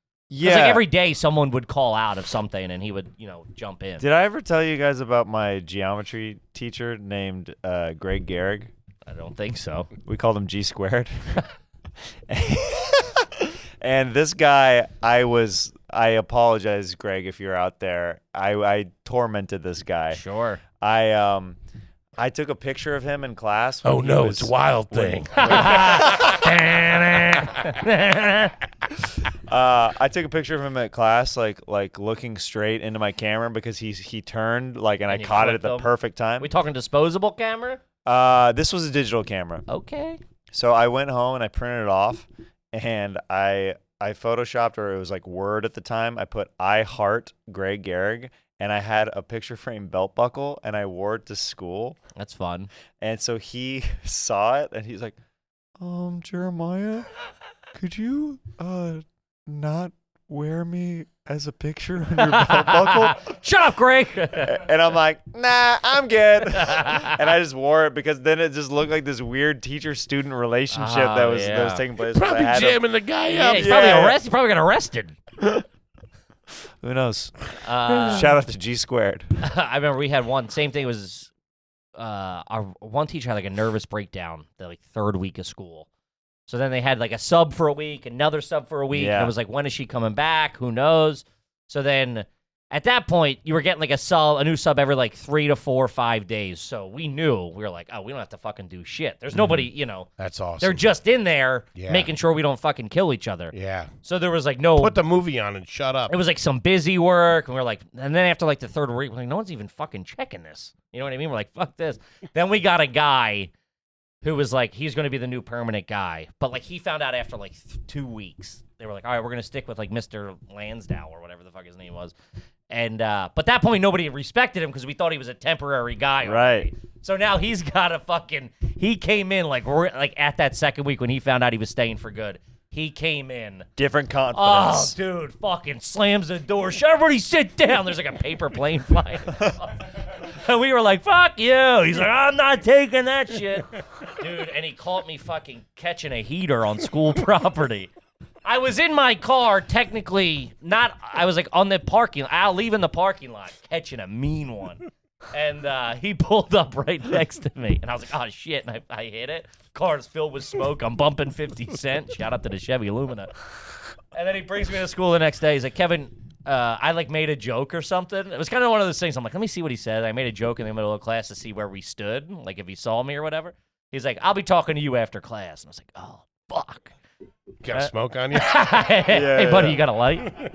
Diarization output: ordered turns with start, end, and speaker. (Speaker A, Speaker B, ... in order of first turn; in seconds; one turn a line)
Speaker A: 0.3-0.8
Speaker B: 0.4-4.0
Speaker A: 4.0-8.7
Speaker B: 9.1-9.9
Speaker A: 10.1-11.4
Speaker A: 12.3-20.2
Speaker B: 20.1-20.6
Speaker A: 20.8-21.6
Speaker A: 22.2-26.3
Speaker C: 23.8-26.5
Speaker B: 25.4-28.6
Speaker A: 29.5-36.5
Speaker B: 35.1-37.8
Speaker A: 38.1-39.7
Speaker B: 39.7-40.2
Speaker A: 40.5-52.0
Speaker B: 52.1-52.7
Speaker A: 53.0-55.2
Speaker A: 55.8-57.1
Speaker A: 57.8-63.2
Speaker B: 62.2-64.6
Speaker A: 64.4-72.8
Speaker B: 66.6-67.2
Speaker B: 70.7-71.8
Speaker C: 72.1-73.8
Speaker B: 73.3-75.2
Speaker A: 73.6-74.2
Speaker A: 75.4-75.7
Speaker A: 76.8-77.4
Speaker B: 77.6-78.3
Speaker A: 78.1-79.3
Speaker B: 79.4-81.3
Speaker B: 82.0-85.9
Speaker B: 86.5-103.5
Speaker A: 88.9-89.3
Speaker C: 100.2-100.8
Speaker C: 101.8-102.1
Speaker C: 103.5-103.9
Speaker B: 104.0-105.0
Speaker C: 104.8-106.1
Speaker B: 106.1-113.5
Speaker B: 114.2-122.1
Speaker B: 122.7-133.7
Speaker A: 126.2-126.7
Speaker A: 133.8-135.0
Speaker B: 134.3-147.9
Speaker B: 148.4-163.3
Speaker B: 164.1-176.9
Speaker C: 177.6-178.7
Speaker B: 177.7-180.3
Speaker A: 179.1-179.8